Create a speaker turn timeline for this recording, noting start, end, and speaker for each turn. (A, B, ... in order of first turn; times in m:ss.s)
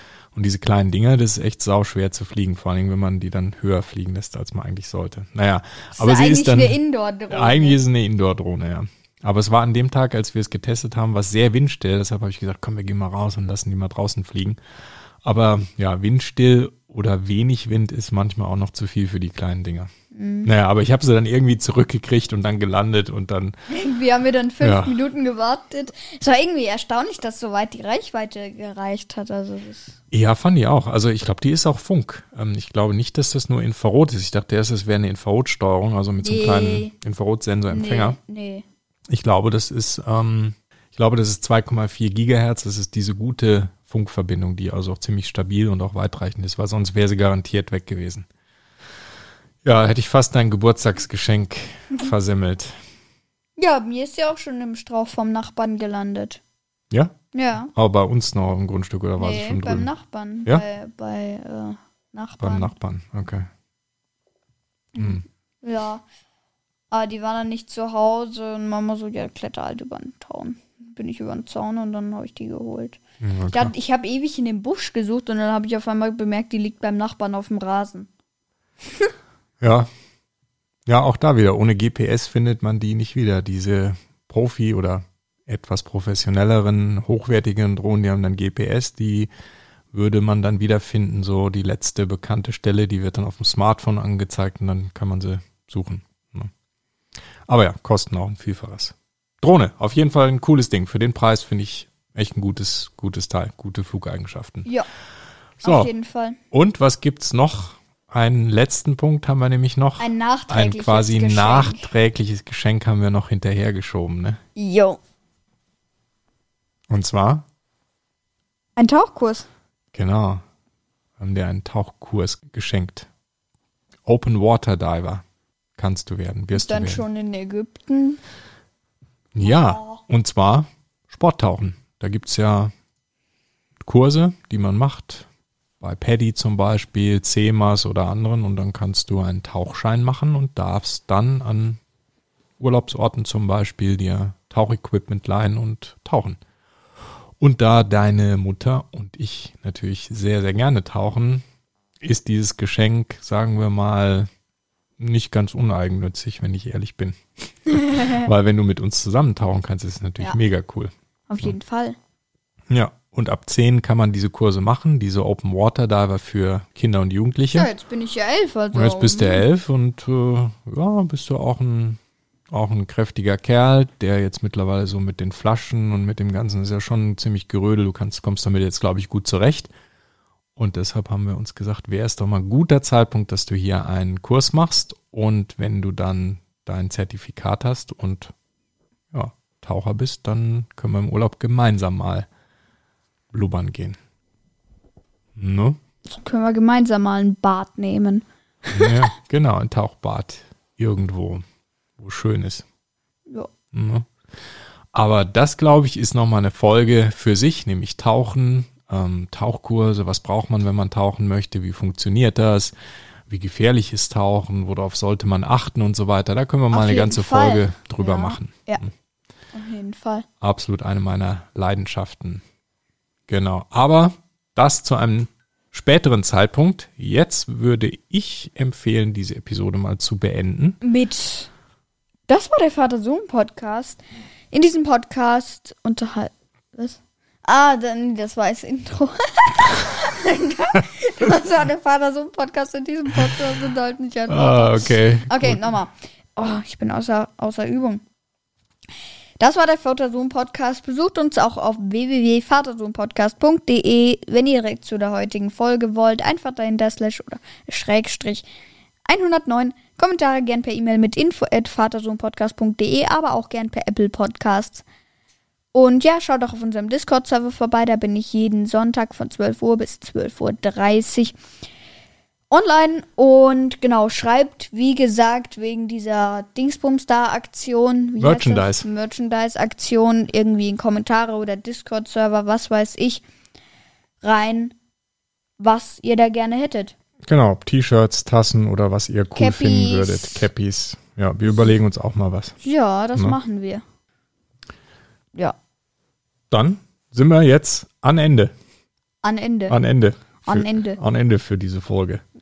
0:00.3-0:06.8 A
0:06.0-0:07.8 B
0:07.3-0:14.6 A
0:15.2-0:19.9 A
0:20.1-0:20.5 B
0:20.4-0:23.6 A
0:23.7-0:30.0 B
0:24.6-0:25.0 A
0:30.1-0:38.2 A
0:36.2-0:36.9 B
0:37.7-0:38.6 B
0:39.1-0:48.3 A
0:49.6-0:52.8 A
0:53.6-0:56.4 B
0:57.3-0:57.7 B
0:57.7-0:59.9 A
0:59.2-1:02.7 B
1:02.4-1:03.5 A
1:05.0-1:06.0 B
1:05.0-1:05.2 A
1:06.9-1:13.0 B
1:13.2-1:13.7 A
1:13.5-1:18.1 B
1:19.6-1:19.9 A
1:20.9-1:29.3 A
1:29.9-1:36.5 A
1:37.5-1:44.7 A
1:45.6-1:45.9 A
1:45.6-1:46.4 B
1:46.5-1:54.4 A
1:50.0-1:51.9 B
1:54.6-1:55.0 B
1:56.9-1:57.5 A
1:58.8-1:59.5 B
1:59.9-2:00.4 A
2:01.2-2:03.1 A
2:04.1-2:05.2 A
2:05.8-2:07.0 A
2:06.5-2:08.2 B
2:09.3-2:12.7 A
2:09.4-2:10.0 B
2:13.8-2:15.3 A
2:15.8-2:21.8 A
2:22.6-2:26.4 A
2:27.4-2:31.4 A
2:32.0-2:34.3 A
2:35.0-2:41.6 A
2:37.7-2:38.3 B
2:41.3-2:42.0 B
2:42.7-2:47.7 A
2:47.5-2:49.4 B
2:48.7-2:52.0 A
2:52.5-2:59.7 A
3:00.6-3:08.3 A
3:09.1-3:12.3 A
3:13.3-3:14.0 A
3:15.4-3:15.8 A
3:16.1-3:19.0 B
3:18.7-3:21.4 A
3:22.0-3:22.6 A
3:23.7-3:24.1 A
3:24.9-3:32.7 A
3:33.3-3:38.9 A
3:36.7-3:38.8 B
3:39.5-3:40.3 B
3:40.4-3:42.4 A
3:43.3-3:50.8 A
3:50.8-3:51.5 B
3:52.3-4:08.0 B
4:04.3-4:05.7 A
4:09.4-4:18.5 B
4:19.1-4:24.8 B
4:25.7-4:31.4 B
4:32.5-4:43.2 B
4:38.2-4:38.9 A
4:44.2-4:44.8 B
4:45.6-4:47.0 B
4:47.3-4:52.6 A
4:49.4-4:50.5 B
4:52.6-4:53.8 B
4:56.5-4:58.5 A
4:59.2-4:59.8 B
4:59.7-5:02.2 A
5:00.4-5:01.0 B